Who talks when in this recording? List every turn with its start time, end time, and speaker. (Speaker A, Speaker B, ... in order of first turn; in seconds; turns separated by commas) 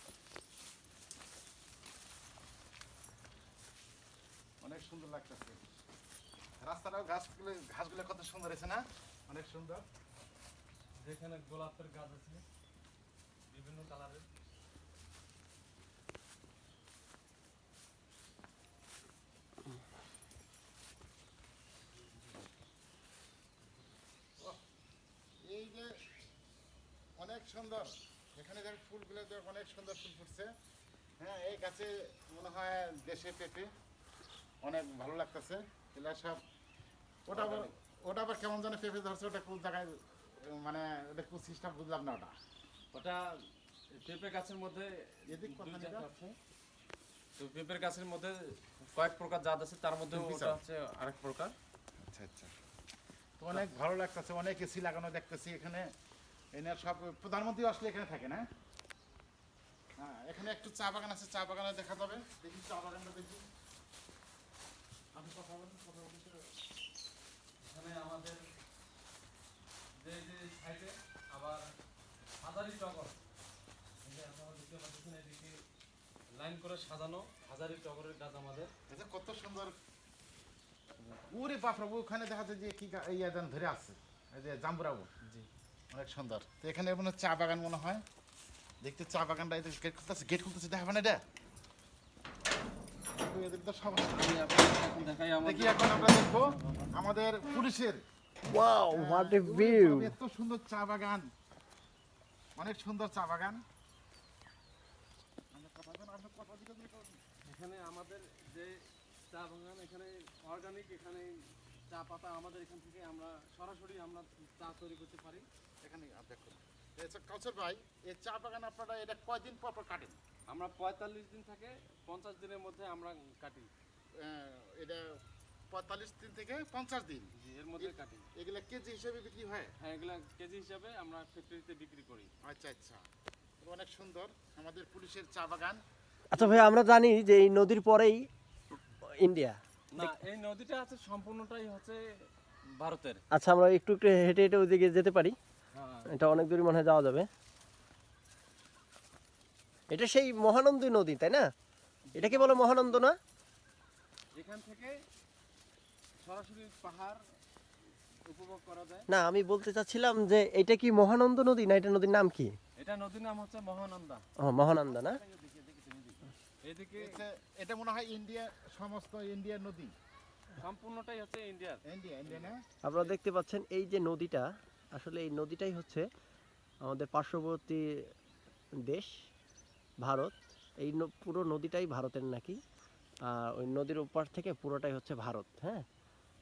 Speaker A: 4.6-5.6, Speaker A: 6.6-9.8, Speaker B: 11.0-12.4, Speaker B: 13.5-14.3, Speaker A: 25.4-26.0, Speaker A: 27.2-30.5, Speaker A: 31.2-33.7, Speaker A: 34.6-36.4, Speaker A: 37.3-42.3, Speaker B: 37.3-37.7, Speaker B: 42.9-43.3, Speaker B: 44.0-46.4, Speaker A: 45.3-46.1, Speaker B: 47.4-51.5, Speaker A: 50.1-50.6, Speaker A: 52.1-52.5, Speaker A: 53.4-55.9, Speaker A: 56.5-58.5, Speaker A: 60.0-63.4, Speaker A: 65.1-66.5, Speaker B: 67.6-68.5, Speaker B: 70.0-71.7, Speaker B: 72.4-73.2, Speaker B: 74.0-75.6, Speaker B: 76.3-78.7, Speaker A: 78.9-79.7, Speaker A: 81.3-85.2, Speaker A: 85.9-88.0, Speaker A: 88.8-91.2, Speaker A: 93.2-98.0, Speaker B: 94.1-96.9, Speaker C: 98.5-100.2, Speaker A: 98.9-101.3, Speaker A: 102.6-103.6, Speaker A: 105.5-107.2, Speaker B: 107.4-115.5, Speaker A: 115.8-120.2, Speaker B: 120.5-123.7, Speaker A: 124.2-125.2, Speaker A: 125.7-129.7, Speaker B: 127.3-128.3, Speaker B: 129.8-132.3, Speaker A: 132.4-133.1, Speaker A: 133.6-135.8, Speaker C: 136.3-138.2, Speaker B: 136.3-136.7, Speaker C: 139.0-140.1, Speaker B: 139.9-142.1, Speaker B: 142.7-143.2, Speaker C: 143.3-145.4, Speaker B: 145.7-146.2, Speaker C: 146.1-147.3, Speaker C: 149.9-151.5, Speaker B: 152.1-153.1, Speaker C: 152.1-153.2, Speaker B: 154.3-155.0, Speaker B: 156.2-157.2, Speaker B: 158.2-159.1, Speaker C: 159.1-162.5, Speaker B: 162.8-164.2, Speaker C: 164.4-165.2, Speaker A: 164.8-166.2, Speaker B: 166.6-167.2, Speaker A: 167.0-169.9, Speaker B: 170.6-173.2, Speaker A: 171.8-172.6, Speaker C: 172.8-176.1, Speaker C: 176.8-177.9, Speaker C: 178.8-179.1, Speaker C: 180.0-182.6, Speaker C: 183.3-185.8